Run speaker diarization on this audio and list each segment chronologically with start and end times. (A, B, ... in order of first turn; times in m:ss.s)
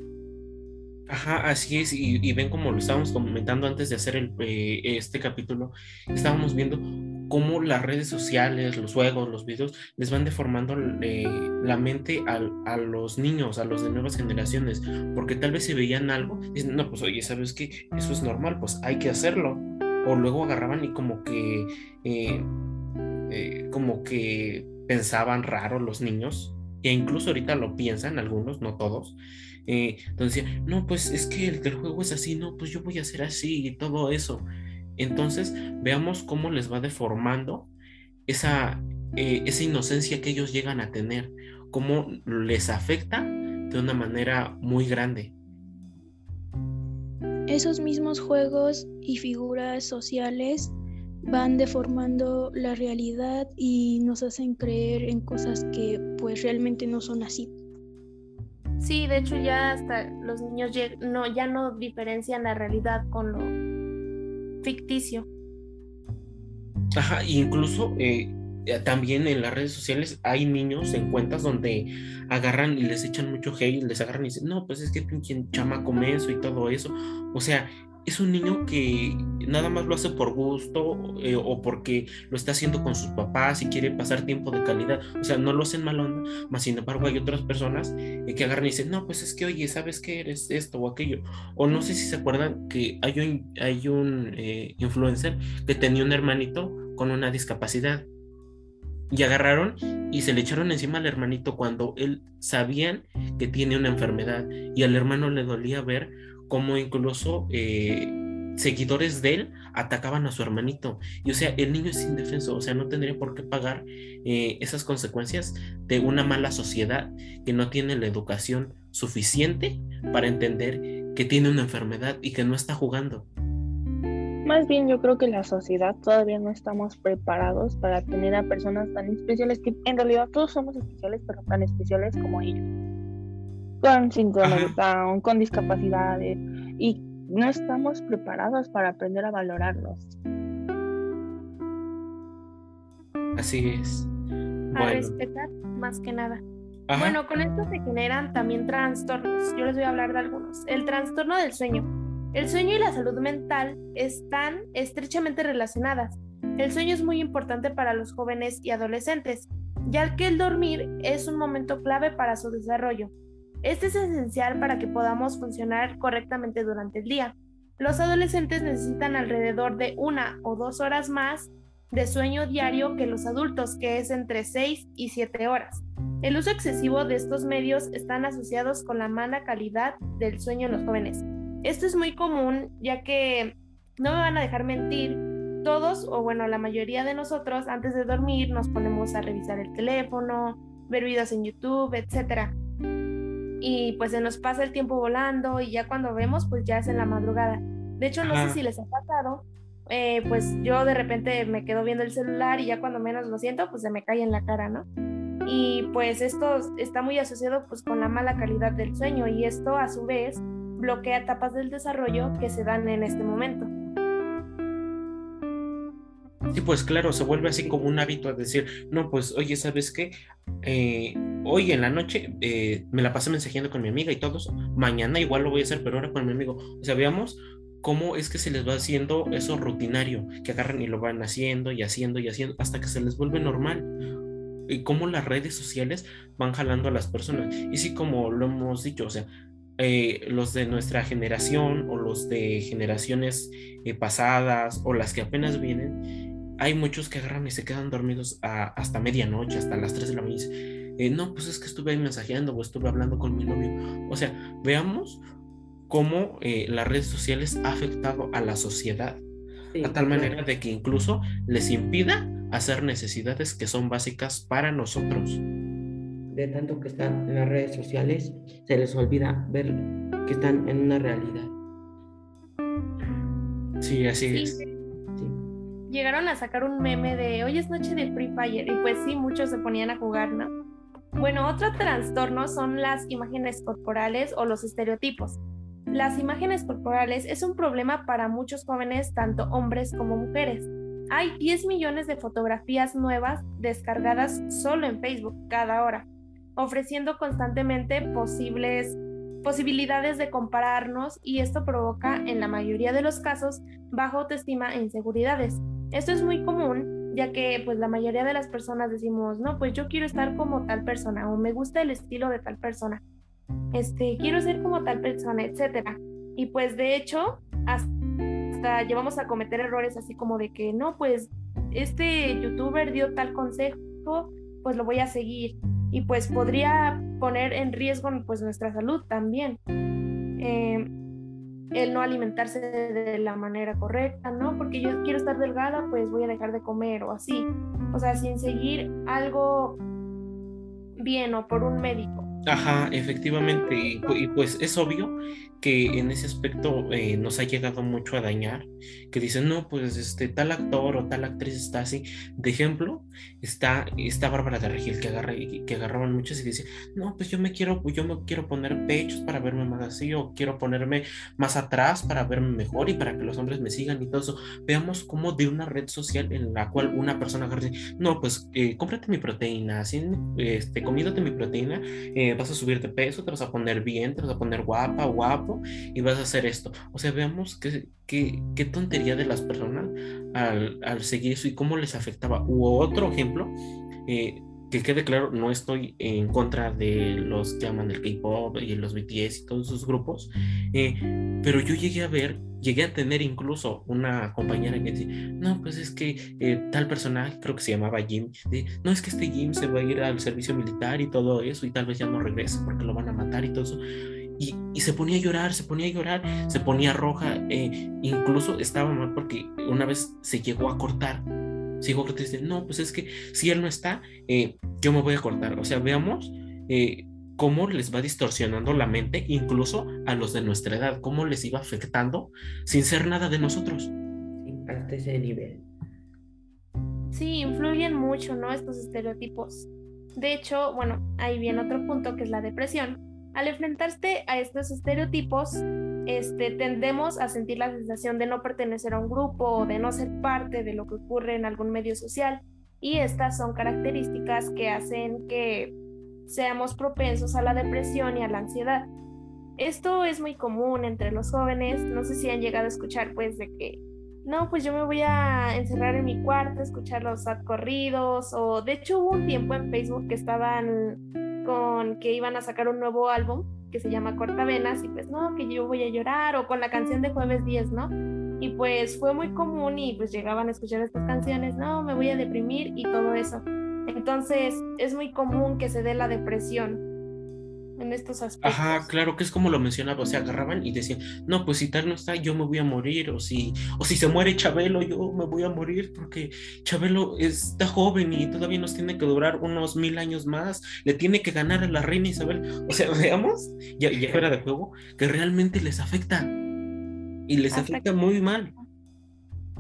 0:01.1-0:22.5 A
0:23.3-0:37.7 A
0:38.3-0:45.3 A
0:47.5-0:57.5 B
0:58.8-1:03.5 C
1:04.6-1:05.3 C
1:07.0-1:38.1 A
1:39.1-2:03.3 A
2:04.4-2:12.6 D
2:13.8-2:20.1 D
2:14.4-2:14.7 A
2:23.4-2:24.1 A
2:24.7-2:25.2 A
2:24.7-2:26.4 C
2:26.9-2:27.2 A
2:26.9-2:43.1 C
2:43.6-3:12.5 C
3:13.6-3:24.9 C
3:18.2-3:18.6 A
3:25.4-3:33.7 C
3:36.5-3:53.9 A
3:54.7-4:06.0 A
4:06.6-4:15.2 A
4:15.9-4:19.2 A
4:19.7-4:20.4 E
4:19.8-4:25.4 A
4:26.3-4:31.6 E
4:33.8-4:34.6 A
4:34.3-4:34.6 C
4:35.2-4:35.4 E
4:35.9-4:40.5 C
4:41.2-4:45.4 C
4:45.9-5:13.0 C
5:13.7-5:17.9 C
5:18.5-5:29.6 C
5:30.4-5:30.9 C
5:31.7-5:39.8 C
5:41.0-5:42.3 C
5:42.5-6:23.6 A
6:24.1-6:43.8 A
6:44.4-6:51.3 A
6:51.8-7:03.9 A
7:04.4-7:05.7 E
7:07.1-7:25.7 C
7:26.3-7:28.9 C
7:29.6-7:56.8 C
7:57.8-7:58.9 C
7:58.4-8:16.3 A
8:17.3-8:18.5 A
8:17.5-8:17.8 C